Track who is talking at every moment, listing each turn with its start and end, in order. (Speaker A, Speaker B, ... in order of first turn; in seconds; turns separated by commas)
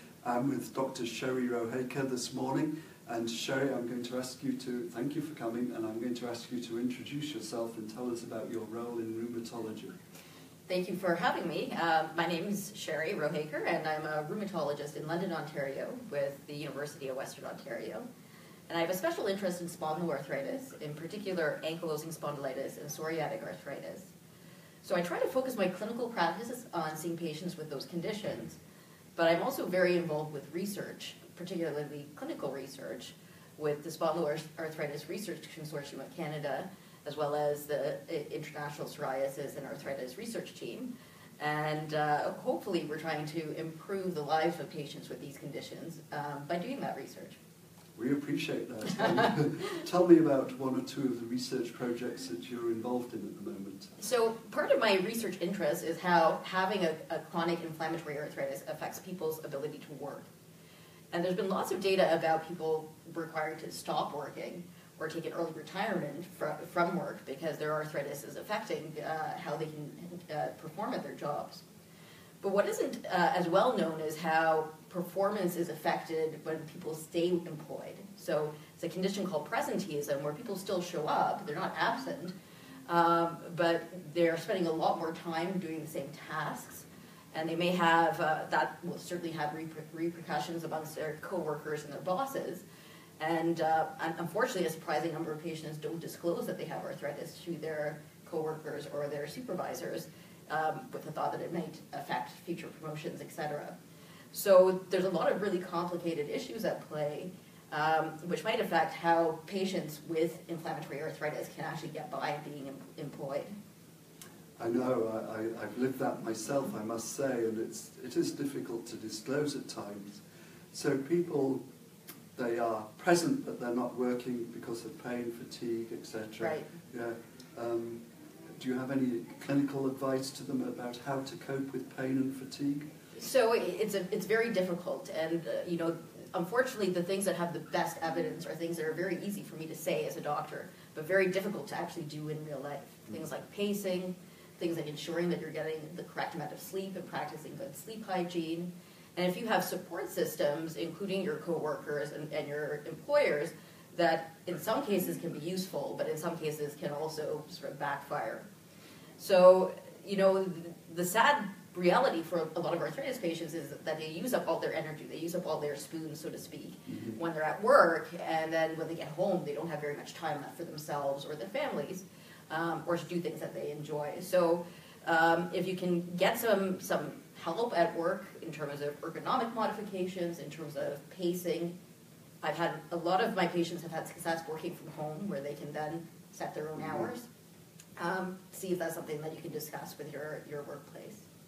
Speaker A: 0.2-9.9, Speaker B: 10.7-18.1, Speaker B: 18.7-24.1, Speaker B: 24.8-28.6, Speaker B: 29.1-47.4, Speaker A: 48.0-53.9, Speaker B: 54.0-60.3, Speaker B: 61.1-71.6, Speaker B: 72.4-82.3, Speaker B: 82.9-92.6, Speaker B: 93.2-103.8, Speaker B: 104.3-113.5, Speaker A: 114.6-120.2, Speaker A: 120.7-121.6, Speaker A: 122.3-128.0, Speaker B: 126.4-126.7, Speaker A: 128.6-132.9, Speaker B: 133.2-158.4, Speaker B: 159.2-181.7, Speaker A: 166.9-167.2, Speaker B: 182.4-187.2, Speaker B: 188.0-191.2